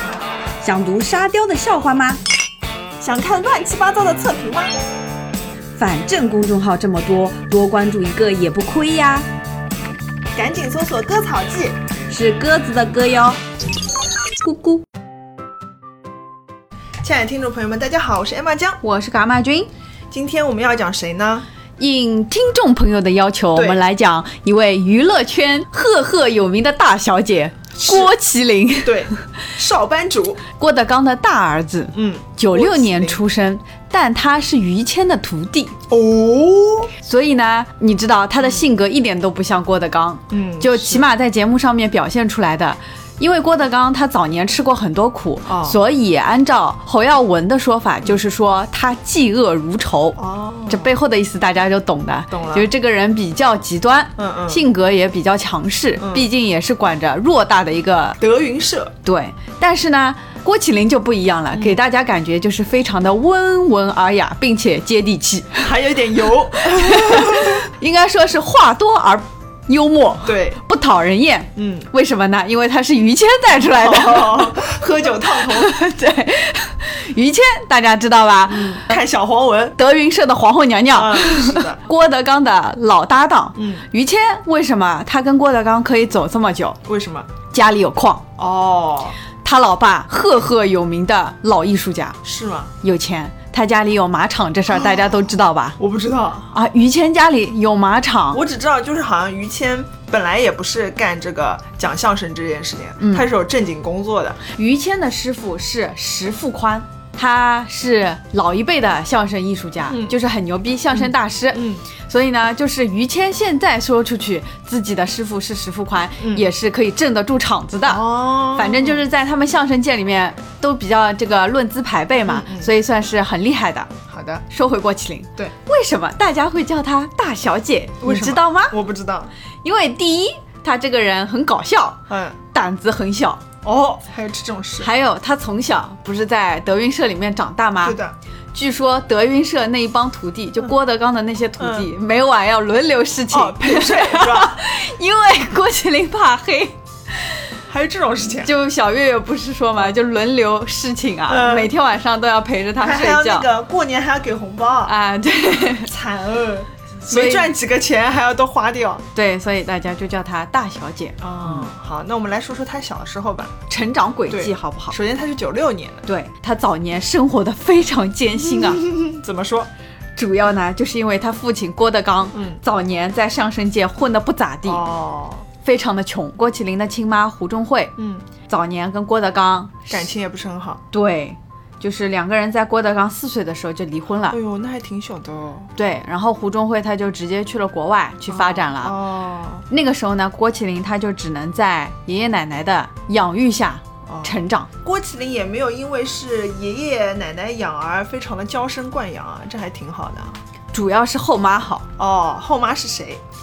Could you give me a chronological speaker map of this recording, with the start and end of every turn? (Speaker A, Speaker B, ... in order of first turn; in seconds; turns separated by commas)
Speaker A: 0.6-2.2, Speaker B: 3.0-4.7, Speaker A: 5.8-9.2, Speaker B: 10.3-11.8, Speaker A: 12.1-13.4, Speaker A: 14.4-14.8, Speaker B: 17.0-18.8, Speaker A: 18.8-19.7, Speaker B: 20.1-21.4, Speaker A: 21.8-29.2, Speaker B: 23.5-23.8, Speaker B: 27.7-28.1, Speaker B: 28.8-30.4, Speaker A: 30.5-35.8, Speaker B: 31.9-33.2, Speaker B: 35.9-36.9, Speaker A: 37.0-50.2, Speaker B: 40.3-41.0, Speaker B: 45.5-45.8, Speaker B: 50.2-50.9, Speaker A: 50.7-58.2, Speaker B: 52.3-52.7, Speaker B: 54.2-54.6, Speaker B: 56.0-56.3, Speaker B: 58.2-58.9, Speaker A: 59.0-65.7, Speaker B: 61.5-61.8, Speaker B: 65.6-67.7, Speaker A: 66.6-74.7, Speaker B: 70.2-70.6, Speaker B: 71.5-71.9, Speaker B: 73.7-75.8, Speaker A: 75.3-79.0, Speaker B: 78.5-79.8, Speaker A: 79.8-86.8, Speaker B: 80.9-81.8, Speaker B: 83.5-83.8, Speaker B: 86.8-87.3, Speaker A: 87.5-88.2, Speaker B: 88.4-89.2, Speaker A: 89.4-92.2, Speaker B: 92.2-92.7, Speaker A: 92.8-95.8, Speaker B: 95.8-96.5, Speaker A: 96.5-98.4, Speaker B: 98.3-104.4, Speaker A: 103.0-103.3, Speaker A: 104.5-123.9, Speaker B: 109.9-110.2, Speaker B: 110.9-111.8, Speaker B: 116.2-116.5, Speaker B: 117.8-119.0, Speaker B: 122.2-122.7, Speaker B: 124.1-124.4, Speaker A: 124.5-128.7, Speaker B: 128.0-129.3, Speaker A: 129.6-133.4, Speaker B: 132.1-132.4, Speaker B: 133.6-134.9, Speaker A: 134.8-138.0, Speaker B: 137.8-138.2, Speaker A: 138.5-147.4, Speaker B: 141.6-141.9, Speaker B: 143.3-144.6, Speaker B: 147.7-148.5, Speaker A: 148.4-153.5, Speaker B: 151.3-151.7, Speaker B: 152.8-154.9, Speaker A: 154.8-155.9, Speaker B: 155.6-159.0, Speaker A: 157.0-157.5, Speaker A: 159.1-161.7, Speaker B: 161.2-163.5, Speaker A: 163.7-165.0, Speaker B: 164.3-166.0, Speaker A: 166.1-168.9, Speaker B: 168.6-169.7, Speaker A: 170.2-174.8, Speaker B: 172.3-172.6, Speaker B: 174.6-175.5, Speaker A: 175.6-177.9, Speaker B: 178.0-178.2, Speaker A: 178.5-180.1, Speaker B: 179.9-180.8, Speaker A: 180.9-184.4, Speaker B: 184.3-185.7, Speaker A: 185.8-188.9, Speaker B: 188.3-189.7, Speaker A: 189.7-194.7, Speaker B: 194.1-200.4, Speaker A: 200.7-201.8, Speaker B: 202.0-203.2